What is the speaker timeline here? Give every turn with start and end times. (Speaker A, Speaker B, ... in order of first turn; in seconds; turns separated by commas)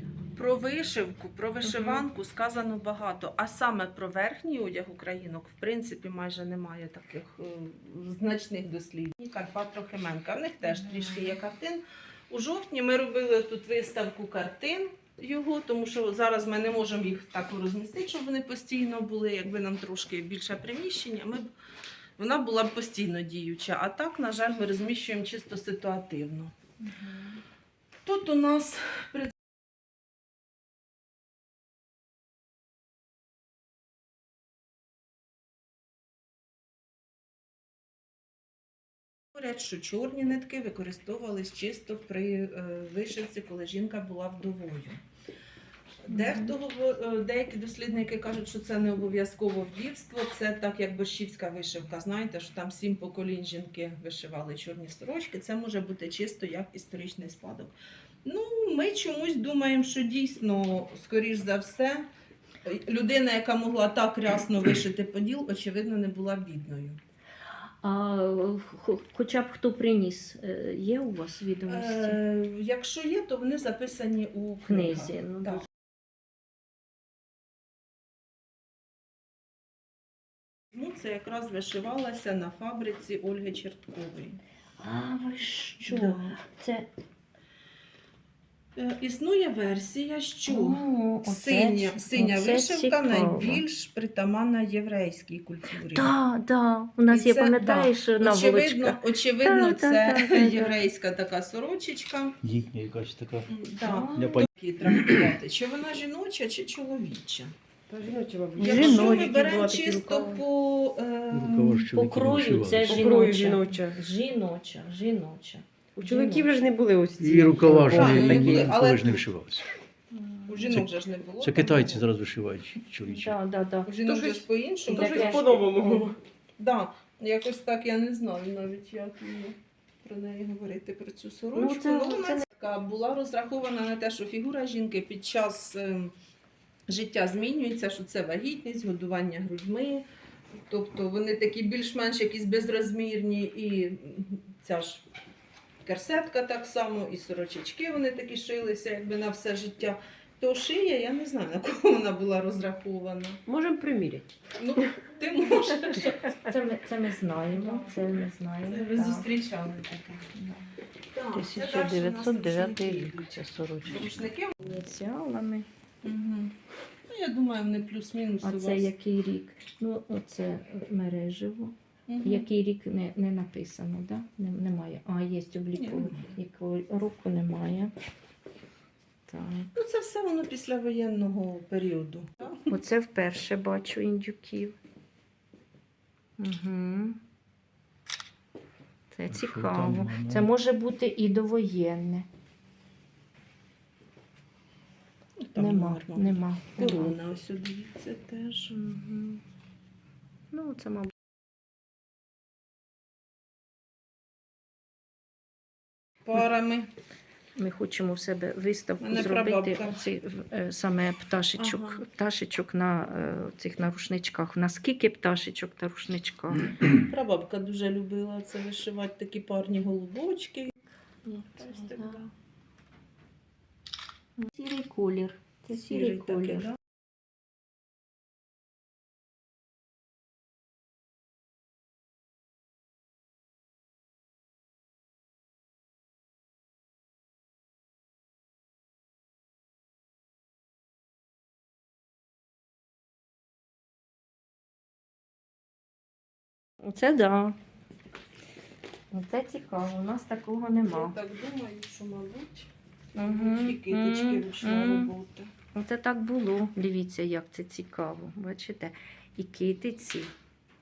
Speaker A: 0.3-21.5, Speaker B: 1.6-2.0, Speaker B: 10.6-11.4, Speaker A: 22.2-26.5, Speaker B: 26.8-27.4, Speaker A: 28.0-29.3, Speaker A: 39.3-45.0, Speaker A: 46.1-62.0, Speaker B: 46.1-46.5, Speaker A: 62.6-67.0, Speaker B: 67.8-72.2, Speaker A: 71.7-75.6, Speaker B: 74.7-75.6, Speaker A: 80.7-84.4, Speaker B: 84.8-86.9, Speaker A: 85.9-86.3, Speaker A: 88.8-96.1, Speaker B: 90.5-93.6, Speaker B: 95.9-100.8, Speaker A: 97.1-102.4, Speaker C: 102.4-103.5, Speaker A: 103.5-107.5, Speaker B: 103.8-104.3, Speaker C: 104.1-105.2, Speaker D: 107.9-110.4, Speaker B: 108.5-109.4, Speaker A: 108.6-111.9, Speaker C: 111.3-113.1, Speaker B: 111.9-116.5, Speaker D: 112.9-114.0, Speaker D: 116.0-118.6, Speaker C: 117.2-119.7, Speaker A: 117.8-119.3, Speaker B: 120.1-120.5, Speaker A: 120.5-122.0, Speaker C: 120.7-123.4, Speaker B: 123.0-123.9, Speaker A: 123.8-136.1, Speaker D: 124.0-126.1, Speaker B: 124.9-126.1, Speaker B: 131.5-132.4, Speaker A: 136.9-140.0, Speaker A: 140.7-145.0, Speaker A: 145.8-153.4, Speaker D: 153.5-154.2, Speaker B: 153.6-153.9, Speaker A: 154.6-156.2, Speaker B: 155.8-159.3, Speaker A: 157.5-157.9, Speaker A: 158.7-160.4, Speaker A: 161.1-164.6, Speaker B: 161.3-165.7, Speaker A: 166.0-166.5, Speaker A: 167.1-168.9, Speaker B: 168.4-177.9, Speaker A: 172.1-172.5, Speaker A: 175.7-176.3, Speaker B: 179.3-179.7, Speaker A: 179.7-182.7, Speaker B: 182.7-184.8, Speaker B: 186.4-187.2, Speaker B: 189.1-192.3, Speaker C: 189.3-190.5, Speaker A: 195.5-198.7, Speaker B: 195.6-197.1, Speaker B: 198.7-199.4, Speaker B: 200.5-201.1, Speaker A: 206.2-206.9, Speaker B: 207.6-216.8, Speaker A: 209.0-210.0, Speaker A: 211.6-212.0, Speaker A: 216.8-220.7, Speaker B: 221.2-222.2, Speaker A: 221.6-222.2, Speaker B: 224.4-226.7, Speaker A: 225.8-226.8, Speaker B: 246.8-247.6, Speaker B: 249.1-251.1, Speaker A: 250.9-255.5, Speaker B: 253.2-255.1, Speaker B: 255.7-260.3